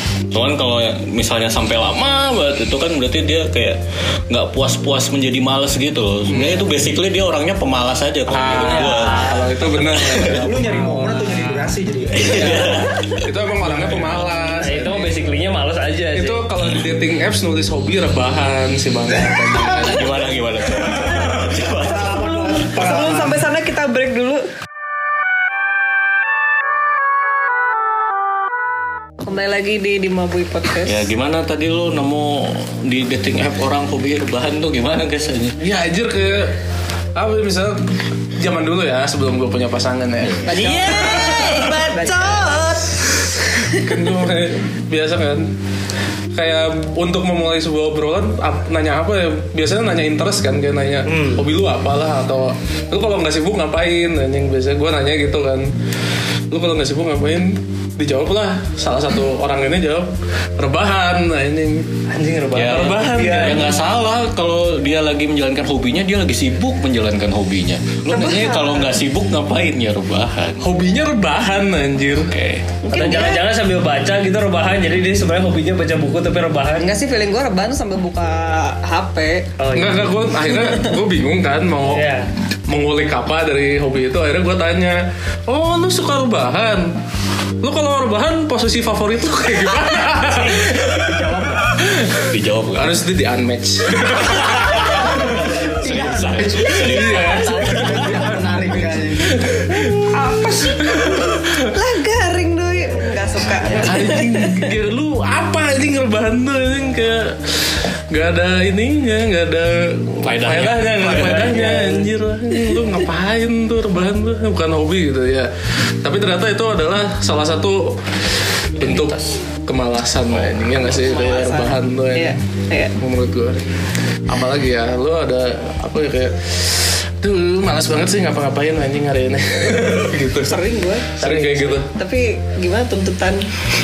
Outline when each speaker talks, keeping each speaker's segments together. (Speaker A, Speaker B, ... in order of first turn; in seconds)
Speaker A: 0.3-10.5, 12.2-13.2, 19.6-22.2, 30.8-35.6, 62.5-70.6, 72.3-72.6, 92.2-93.0, 94.2-98.3, 110.2-111.8, 118.8-119.2, 120.3-120.9
Speaker B: 6.3-6.6, 8.5-9.5, 14.6-16.4, 40.5-42.4, 51.0-51.4, 62.1-63.7, 72.9-76.8, 79.6-80.1, 81.8-82.3, 111.0-112.1
Speaker C: 8.3-11.6, 13.1-15.1, 16.1-20.2, 21.1-21.4, 35.6-36.5, 37.1-37.8, 38.4-43.1, 43.6-45.4, 46.3-55.7, 56.5-61.9, 62.7-63.7, 70.6-72.3, 79.7-82.1, 82.7-86.9, 87.6-95.0, 96.7-101.7, 103.8-115.5, 116.0-118.0, 118.8-122.4, 123.0-123.6, 124.3-130.6, 131.2-131.9
Speaker D: 10.3-12.8, 21.9-23.4, 90.3-91.7, 94.9-99.7, 103.4-104.0
Speaker E: 21.9-24.5, 29.2-31.0, 40.5-42.9, 43.6-43.8, 68.1-68.9, 72.8-73.4, 76.8-79.5, 99.7-104.7, 122.1-122.9, 130.4-133.4